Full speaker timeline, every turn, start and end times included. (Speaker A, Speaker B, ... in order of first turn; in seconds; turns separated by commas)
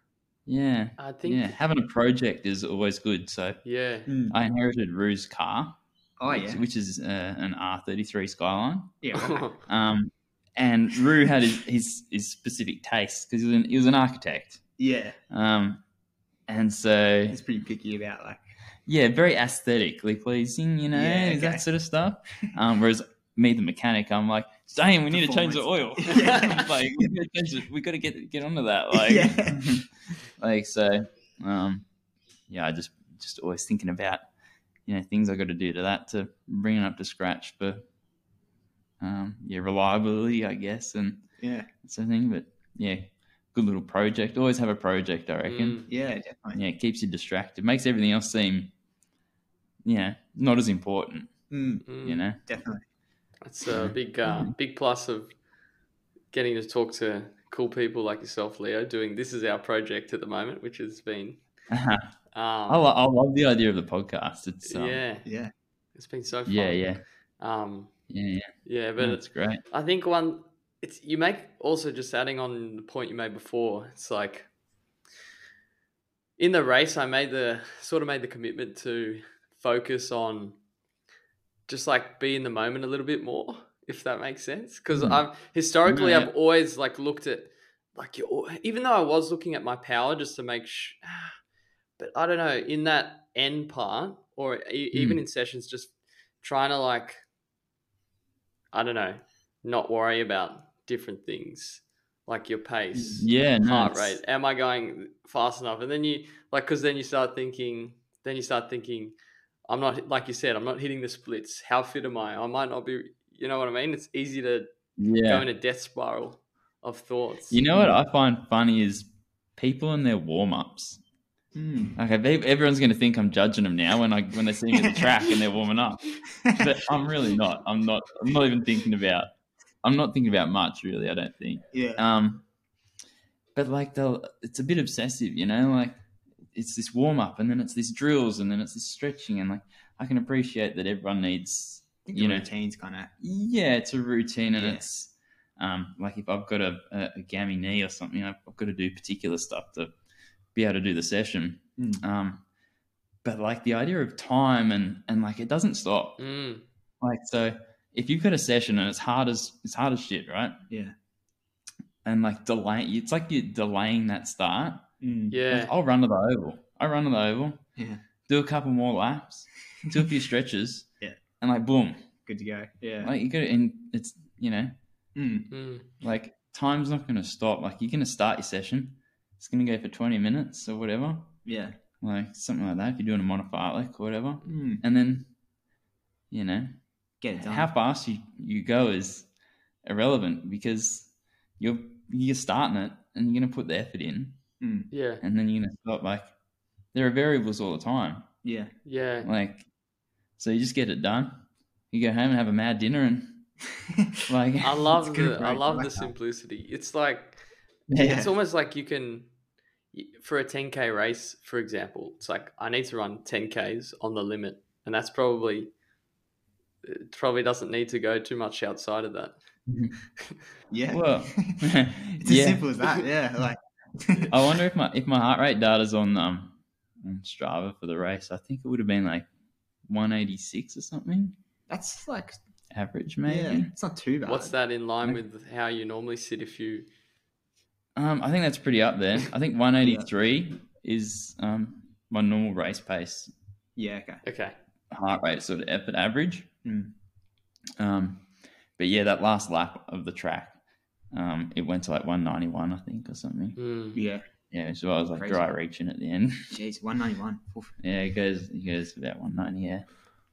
Speaker A: 0.5-3.6, Speaker B: 1.0-1.5, Speaker B: 3.6-4.1, Speaker C: 4.1-4.4, Speaker A: 4.3-9.1, Speaker C: 6.2-6.6, Speaker C: 9.0-9.5, Speaker B: 9.2-9.6, Speaker A: 9.6-14.6, Speaker C: 14.8-15.2, Speaker A: 15.3-15.8, Speaker A: 16.5-17.4, Speaker C: 17.3-18.4, Speaker A: 18.9-29.9, Speaker C: 20.9-21.7, Speaker C: 25.1-27.1, Speaker B: 26.1-26.6, Speaker C: 28.9-29.9, Speaker A: 30.4-31.9, Speaker A: 32.5-34.3, Speaker A: 34.9-37.9, Speaker A: 39.0-41.3, Speaker C: 41.4-41.7, Speaker A: 41.8-45.8, Speaker B: 45.5-45.9, Speaker C: 45.9-46.6, Speaker A: 46.5-48.7, Speaker A: 49.8-51.3, Speaker C: 51.5-51.9, Speaker B: 51.9-52.2, Speaker A: 52.0-52.4, Speaker C: 52.4-52.9, Speaker B: 53.4-55.4, Speaker B: 56.3-61.4, Speaker A: 61.7-62.1, Speaker B: 62.3-62.8, Speaker A: 62.7-65.0, Speaker B: 64.7-65.3, Speaker C: 65.2-65.5, Speaker B: 66.0-67.9, Speaker A: 66.5-67.0, Speaker A: 68.1-69.6, Speaker B: 68.7-74.5, Speaker B: 76.4-80.6, Speaker B: 81.7-91.4, Speaker A: 85.8-86.3, Speaker B: 92.0-97.2, Speaker A: 94.9-95.2, Speaker B: 98.7-109.2, Speaker A: 103.2-104.2, Speaker B: 109.7-114.7, Speaker A: 115.0-115.5, Speaker B: 115.2-117.6, Speaker A: 117.5-121.0, Speaker C: 121.5-122.0, Speaker A: 122.0-129.3, Speaker C: 126.4-126.6, Speaker A: 129.8-132.4, Speaker C: 131.7-132.0, Speaker A: 133.6-136.0, Speaker A: 136.5-142.5, Speaker C: 142.1-143.1, Speaker A: 143.2-149.9, Speaker C: 144.6-144.8, Speaker A: 150.6-152.4, Speaker C: 151.8-152.0, Speaker A: 153.2-156.2, Speaker B: 156.2-156.6, Speaker A: 157.0-160.6, Speaker A: 162.1-164.9, Speaker C: 165.0-165.4, Speaker B: 165.3-165.7, Speaker A: 165.5-167.6, Speaker C: 167.8-168.0, Speaker A: 168.3-170.9, Speaker A: 171.4-172.1, Speaker C: 172.2-173.1, Speaker A: 173.0-174.8, Speaker C: 175.2-175.5, Speaker B: 175.5-175.9, Speaker A: 176.0-181.3, Speaker C: 181.4-181.8, Speaker A: 182.0-185.3, Speaker C: 184.4-184.8, Speaker A: 186.3-186.8, Speaker C: 187.2-187.7, Speaker A: 187.4-189.3, Speaker A: 189.8-194.4, Speaker C: 194.6-194.9, Speaker B: 194.9-195.2, Speaker A: 195.2-196.3, Speaker A: 196.9-198.3, Speaker C: 198.4-198.7, Speaker B: 198.8-199.3, Speaker A: 199.2-199.7, Speaker A: 200.4-203.5, Speaker A: 204.3-205.0, Speaker B: 204.6-207.4, Speaker C: 205.0-206.1, Speaker C: 207.9-208.3, Speaker B: 208.0-209.3, Speaker B: 209.9-215.7, Speaker B: 216.8-219.4, Speaker A: 219.7-220.0, Speaker C: 220.7-221.7, Speaker A: 220.9-222.7, Speaker C: 222.2-224.3, Speaker A: 224.3-229.3, Speaker A: 229.9-231.4, Speaker C: 231.7-232.4, Speaker A: 232.7-233.7, Speaker C: 233.3-234.6, Speaker B: 234.2-236.9, Speaker A: 238.0-243.3, Speaker C: 239.8-240.1, Speaker C: 243.8-244.2, Speaker B: 244.2-244.6, Speaker A: 244.9-246.5, Speaker C: 246.7-246.9, Speaker A: 247.8-248.3, Speaker A: 248.8-250.6, Speaker A: 251.1-253.6, Speaker B: 253.6-254.0, Speaker C: 253.9-254.2, Speaker A: 254.5-256.5, Speaker C: 255.2-255.5, Speaker C: 256.5-257.7, Speaker A: 257.8-259.9